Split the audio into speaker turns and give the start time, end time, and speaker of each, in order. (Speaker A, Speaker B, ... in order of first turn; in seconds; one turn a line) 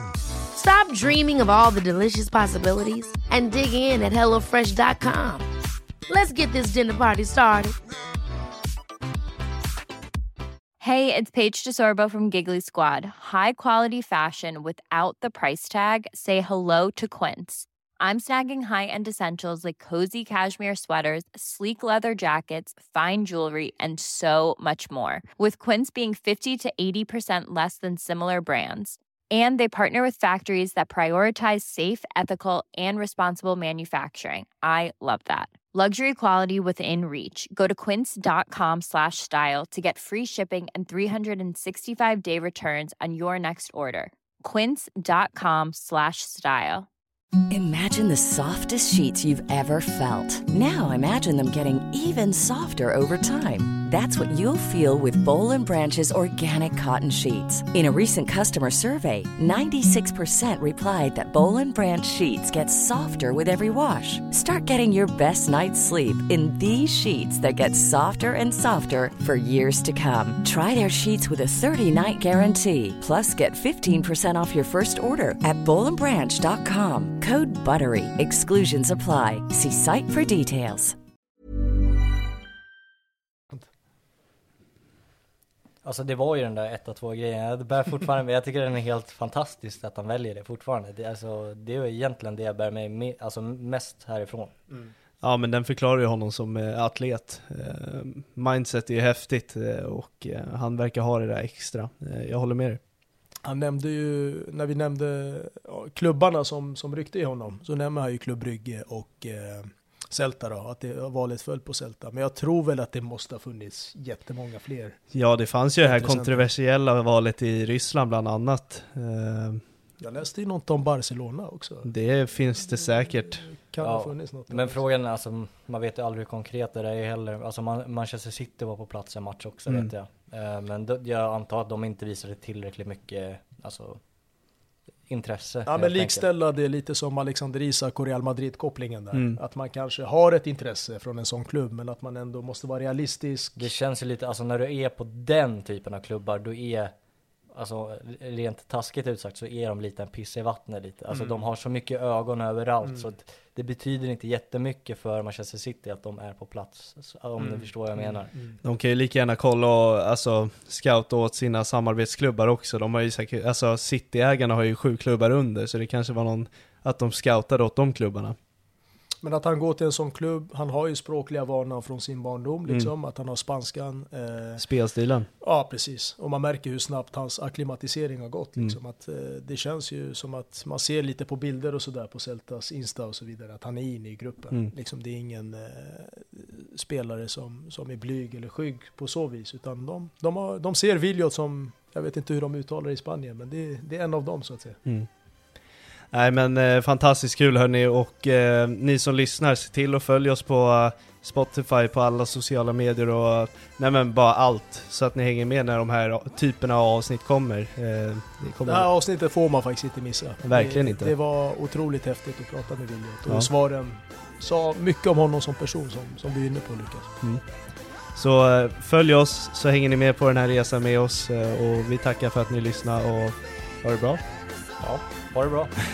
Speaker A: 0.5-5.5
Speaker A: 6.1-7.7
Speaker B: 10.8-46.9
Speaker C: 47.5-81.0
Speaker D: 85.8-94.5
Speaker E: 95.2-102.8
Speaker F: 103.4-115.0
Speaker E: 115.1-119.6
Speaker F: 115.8-116.5
Speaker F: 120.0-121.9
Speaker E: 121.8-123.4
Speaker F: 123.5-124.8
Speaker D: 123.8-134.0
Speaker D: 135.1-136.3
Speaker F: 135.7-143.7
Speaker E: 139.1-139.4
Speaker D: 143.6-146.9
Speaker D: 147.5-158.3
Speaker F: 151.1-151.4
Speaker F: 157.4-158.6
Speaker E: 158.6-168.3
Speaker F: 169.2-174.6
Speaker E: 172.7-172.9
Speaker E: 174.6-175.3
Speaker F: 175.4-194.8
Speaker E: 196.1-208.9
Speaker F: 208.7-217.1
Speaker E: 210.4-211.1
Speaker E: 218.1-224.2
Speaker D: 224.8-225.7